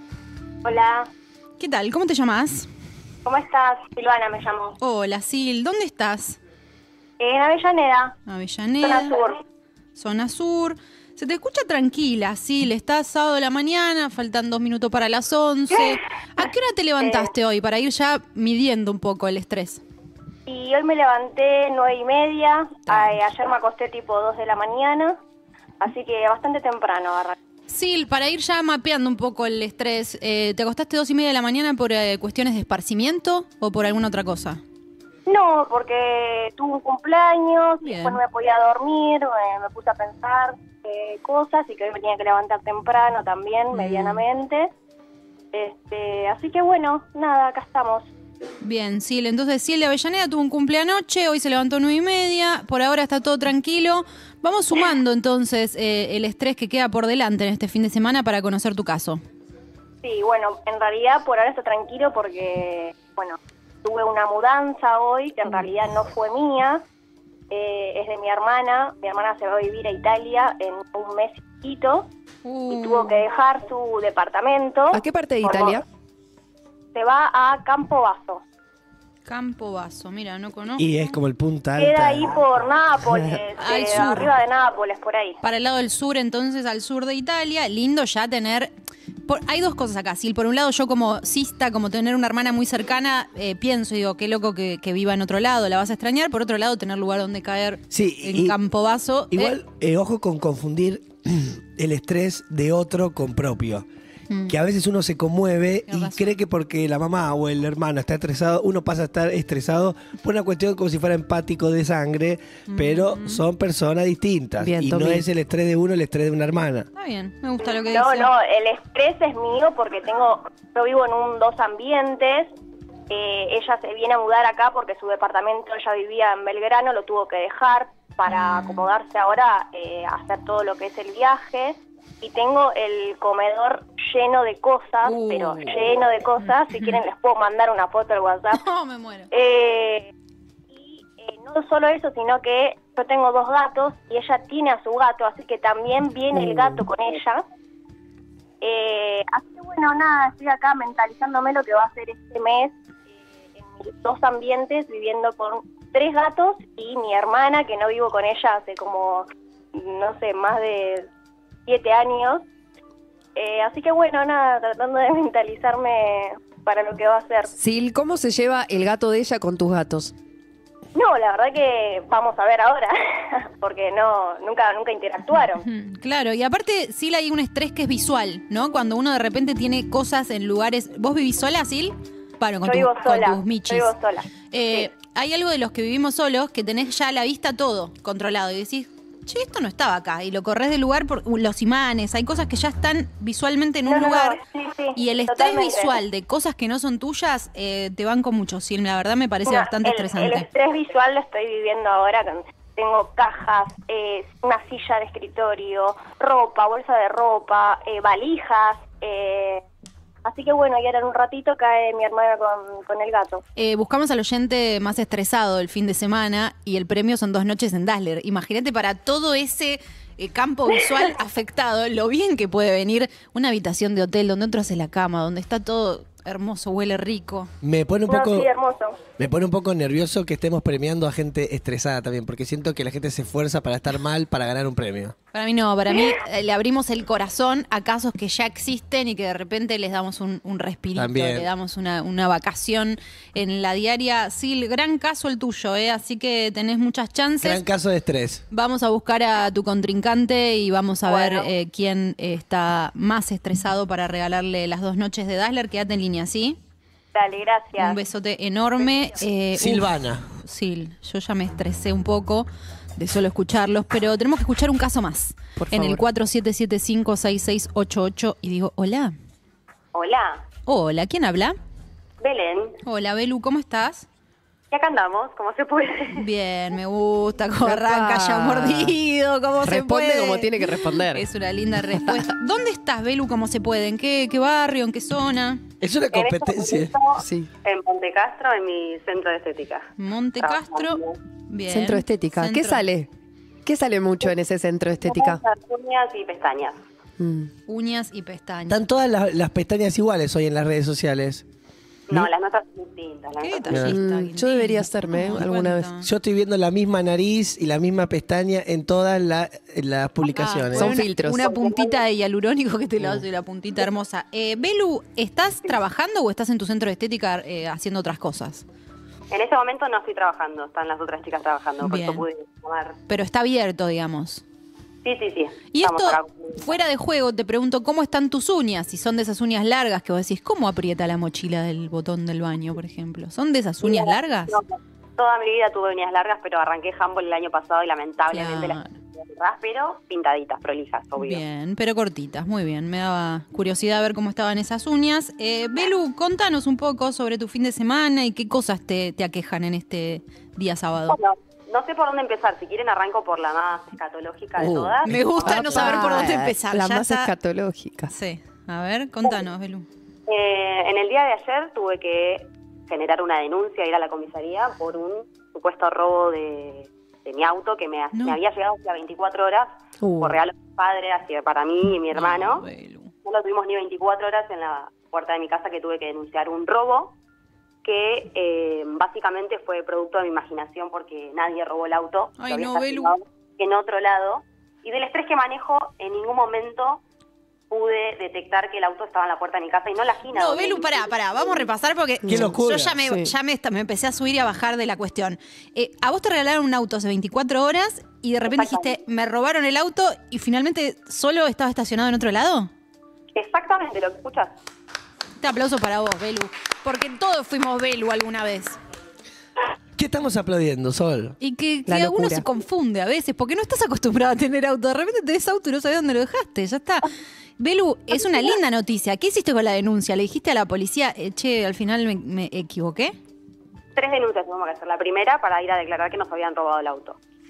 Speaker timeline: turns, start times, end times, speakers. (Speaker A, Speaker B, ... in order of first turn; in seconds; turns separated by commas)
Speaker A: 0.6-1.1, Speaker B: 1.6-2.7, Speaker A: 3.2-4.8, Speaker B: 4.8-6.4, Speaker A: 7.2-8.2, Speaker B: 8.3-9.2, Speaker A: 8.8-9.4, Speaker B: 9.9-19.8, Speaker A: 17.0-17.3, Speaker A: 20.5-25.2, Speaker B: 22.9-23.2, Speaker A: 25.8-27.4, Speaker B: 27.7-34.6, Speaker A: 35.3-44.7, Speaker B: 37.8-38.2, Speaker B: 43.7-44.2, Speaker A: 45.5-48.1, Speaker B: 48.6-59.2, Speaker A: 60.0-66.8, Speaker A: 67.5-72.1, Speaker B: 72.4-73.2, Speaker A: 72.7-75.8, Speaker C: 74.9-75.8, Speaker A: 76.9-78.4, Speaker B: 79.3-80.9, Speaker D: 80.8-82.5, Speaker A: 81.8-85.4, Speaker C: 83.1-83.4, Speaker B: 83.6-84.3, Speaker B: 85.4-88.7, Speaker B: 89.2-99.6, Speaker D: 97.9-98.6, Speaker D: 99.3-103.8, Speaker B: 104.3-104.5, Speaker D: 104.5-116.9, Speaker B: 105.9-106.3, Speaker B: 112.7-113.4, Speaker C: 114.6-115.2, Speaker B: 117.0-118.3, Speaker A: 117.7-122.5, Speaker A: 123.1-138.6, Speaker B: 128.3-128.9, Speaker B: 135.0-135.8, Speaker B: 136.7-137.0, Speaker B: 138.5-139.3, Speaker A: 139.3-140.1, Speaker A: 140.7-147.4, Speaker C: 146.3-146.9, Speaker A: 148.6-152.8, Speaker A: 153.6-161.1, Speaker A: 161.7-162.4, Speaker A: 163.4-167.5, Speaker C: 167.6-170.2, Speaker A: 170.9-175.7, Speaker B: 175.6-183.9, Speaker A: 182.6-184.3, Speaker B: 184.5-194.4, Speaker A: 193.9-196.0, Speaker B: 194.9-200.5, Speaker A: 199.5-209.7, Speaker A: 210.2-213.4, Speaker B: 213.6-227.5, Speaker D: 227.6-228.5, Speaker A: 228.1-229.0, Speaker D: 229.2-235.2, Speaker B: 235.3-247.6, Speaker D: 241.0-241.5, Speaker D: 247.4-248.4, Speaker B: 248.5-256.6, Speaker A: 251.1-251.5, Speaker A: 257.1-258.0, Speaker B: 257.8-269.1, Speaker A: 258.8-259.3, Speaker D: 259.5-260.3, Speaker C: 265.6-266.1, Speaker E: 269.9-270.4, Speaker B: 270.7-271.6, Speaker E: 272.2-272.8, Speaker B: 272.8-274.1, Speaker E: 274.7-276.2, Speaker B: 276.1-285.6, Speaker C: 277.6-279.0, Speaker C: 279.6-281.2, Speaker C: 282.0-282.2, Speaker D: 285.8-286.9, Speaker E: 286.1-289.9, Speaker C: 287.2-287.5, Speaker B: 290.0-292.8, Speaker E: 290.4-291.2, Speaker C: 291.7-293.1, Speaker C: 293.6-295.4, Speaker E: 295.1-296.8, Speaker C: 297.2-297.5, Speaker B: 297.7-298.8, Speaker D: 298.7-301.4, Speaker E: 302.1-303.9, Speaker B: 303.4-306.1, Speaker D: 303.7-304.0, Speaker C: 303.9-305.9, Speaker D: 306.0-311.0, Speaker B: 310.3-318.6, Speaker C: 310.7-311.4, Speaker E: 311.4-312.0, Speaker E: 319.3-323.0, Speaker B: 321.8-322.2, Speaker B: 323.1-324.4, Speaker E: 325.0-326.8, Speaker B: 325.7-334.6, Speaker E: 333.8-341.4, Speaker B: 338.3-338.9, Speaker B: 341.2-351.2, Speaker E: 351.1-356.3, Speaker C: 354.6-358.1, Speaker B: 355.0-357.3, Speaker B: 358.1-359.9, Speaker E: 360.3-372.7, Speaker C: 370.0-370.4, Speaker B: 372.1-373.1, Speaker E: 373.2-377.1, Speaker E: 377.8-387.0, Speaker B: 382.4-383.1, Speaker E: 387.7-391.7, Speaker B: 390.3-402.7, Speaker D: 392.3-393.0, Speaker C: 392.3-393.3, Speaker E: 398.4-399.0, Speaker E: 403.4-404.5, Speaker B: 405.4-408.8, Speaker D: 410.0-411.4, Speaker B: 411.4-417.1, Speaker C: 411.9-412.4, Speaker B: 417.6-423.1, Speaker E: 424.0-427.2